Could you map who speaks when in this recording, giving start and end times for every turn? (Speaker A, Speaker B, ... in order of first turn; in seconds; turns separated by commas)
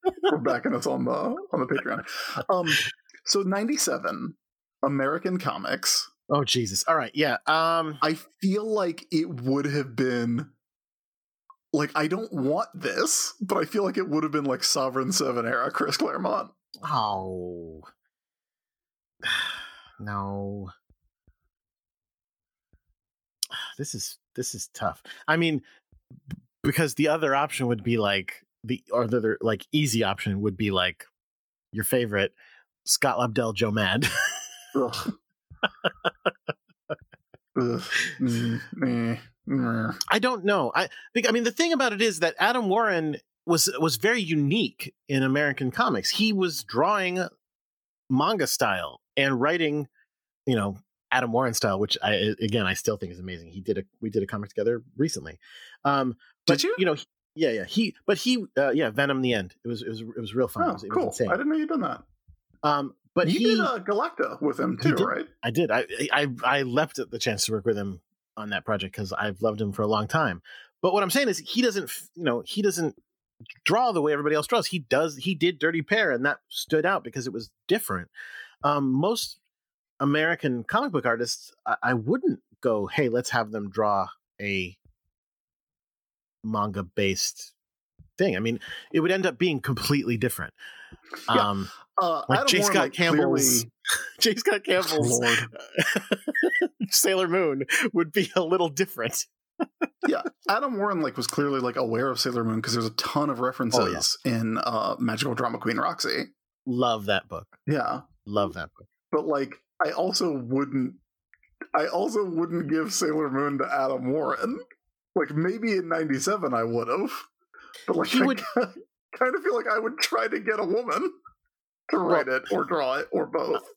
Speaker A: 0.3-6.1, Speaker B: 6.3-8.0, Speaker A: 8.0-10.5, Speaker A: 11.7-16.5, Speaker B: 16.8-17.9, Speaker B: 19.2-20.7, Speaker B: 23.5-25.6, Speaker B: 26.6-31.1, Speaker B: 31.7-32.3, Speaker B: 32.8-34.4, Speaker A: 34.7-35.1, Speaker B: 35.8-36.3, Speaker A: 37.5-40.0, Speaker B: 40.1-47.3, Speaker B: 48.1-49.9, Speaker B: 50.5-61.4, Speaker A: 56.5-56.8, Speaker A: 60.6-62.0, Speaker B: 62.6-63.7, Speaker A: 63.2-65.3, Speaker B: 64.8-73.0, Speaker B: 73.6-78.1, Speaker B: 78.6-79.4, Speaker B: 80.0-84.8, Speaker B: 86.4-87.5, Speaker B: 88.2-90.5, Speaker B: 91.3-91.7, Speaker A: 91.3-93.7, Speaker B: 92.3-93.7, Speaker B: 94.2-99.3, Speaker A: 94.8-95.5, Speaker A: 100.0-106.3, Speaker B: 103.7-104.0, Speaker B: 106.7-107.5, Speaker A: 107.7-108.0, Speaker B: 108.2-108.9, Speaker A: 109.1-111.0, Speaker A: 111.7-114.6, Speaker A: 115.1-117.3, Speaker A: 117.9-121.1, Speaker B: 118.0-118.4, Speaker A: 121.9-123.7